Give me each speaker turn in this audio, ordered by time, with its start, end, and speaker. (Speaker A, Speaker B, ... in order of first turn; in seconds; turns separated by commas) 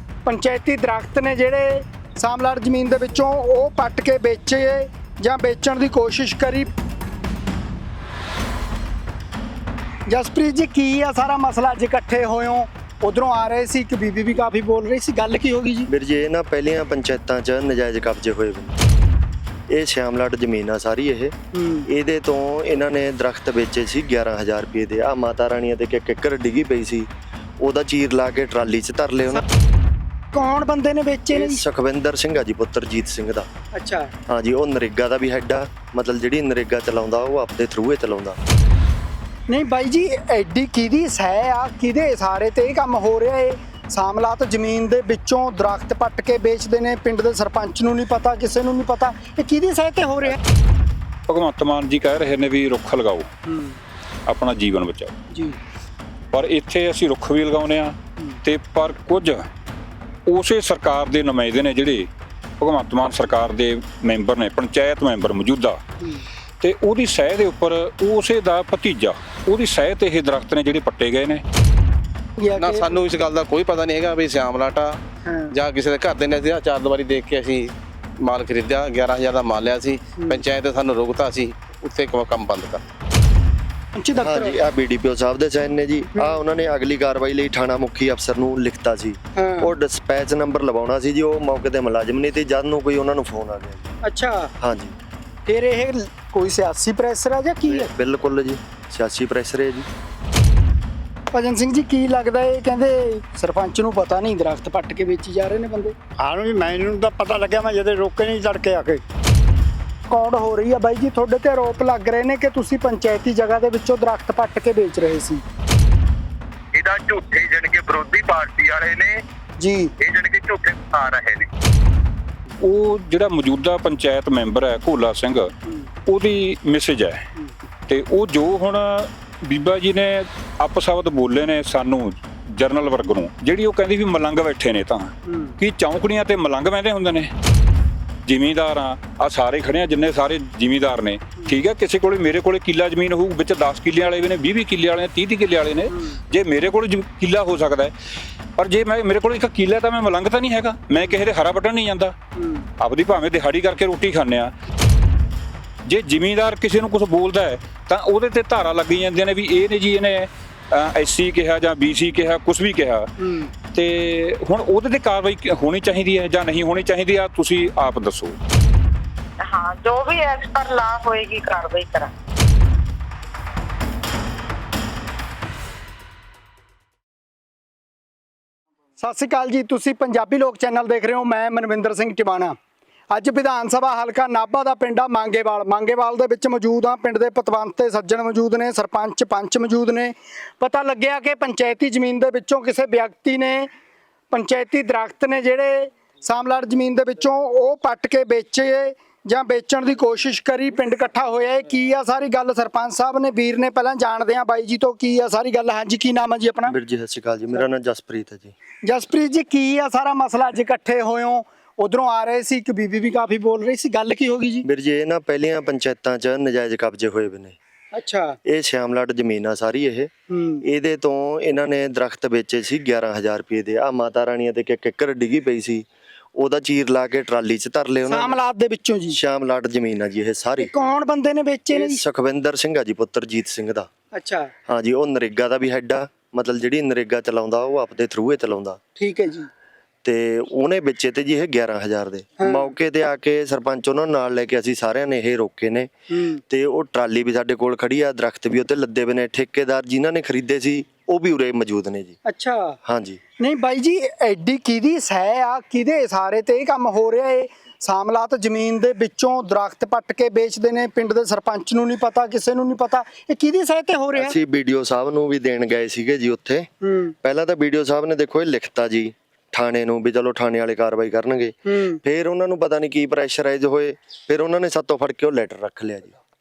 Speaker A: 0.2-6.7, Speaker A: 10.1-15.9, Speaker B: 15.9-18.8, Speaker B: 19.7-21.3, Speaker A: 21.5-21.9, Speaker B: 21.9-29.4, Speaker A: 30.3-31.6, Speaker B: 31.3-33.5, Speaker A: 33.7-34.1, Speaker B: 34.3-38.4, Speaker A: 39.5-50.4, Speaker C: 51.3-53.3, Speaker A: 53.5-53.8, Speaker C: 54.3-55.1, Speaker A: 55.3-55.6, Speaker C: 56.3-59.4, Speaker C: 60.3-62.1, Speaker C: 62.6-65.8, Speaker A: 66.0-66.2, Speaker C: 66.6-71.4, Speaker A: 72.4-73.0, Speaker D: 72.5-82.8, Speaker A: 75.2-75.5, Speaker A: 80.2-80.4, Speaker A: 84.0-84.6, Speaker B: 84.2-93.9, Speaker A: 89.3-89.7, Speaker A: 94.0-94.5, Speaker B: 94.6-94.9, Speaker A: 95.5-97.9, Speaker B: 97.7-99.8, Speaker A: 101.3-105.9, Speaker E: 106.2-109.0, Speaker A: 110.1-115.4, Speaker F: 116.7-119.2, Speaker A: 119.6-119.9, Speaker F: 120.0-121.5, Speaker C: 122.6-125.5, Speaker C: 126.1-127.2, Speaker C: 127.9-137.3, Speaker A: 135.2-135.6, Speaker C: 138.2-147.9, Speaker A: 145.9-146.2, Speaker C: 148.6-152.1, Speaker A: 152.3-152.7, Speaker C: 152.8-154.5, Speaker C: 155.8-163.1, Speaker A: 163.2-163.5, Speaker C: 163.7-168.4, Speaker G: 169.4-172.1, Speaker A: 179.0-182.6, Speaker A: 183.1-193.7, Speaker A: 194.3-206.7, Speaker B: 206.7-208.5, Speaker A: 208.8-214.7, Speaker B: 214.6-217.6, Speaker A: 217.9-218.4, Speaker B: 218.4-220.1, Speaker A: 220.3-220.6, Speaker B: 220.6-228.4, Speaker A: 228.1-229.2, Speaker B: 229.1-230.7, Speaker A: 230.6-232.0, Speaker B: 231.7-233.9, Speaker A: 234.1-234.5, Speaker B: 234.7-238.8, Speaker A: 239.0-239.5, Speaker B: 240.0-245.9, Speaker A: 242.4-242.7, Speaker A: 246.1-246.4, Speaker B: 246.5-252.2, Speaker A: 252.3-252.8, Speaker B: 252.8-253.2, Speaker A: 253.4-264.4, Speaker B: 264.1-266.7, Speaker A: 266.8-267.1, Speaker B: 267.2-276.2, Speaker A: 271.6-272.0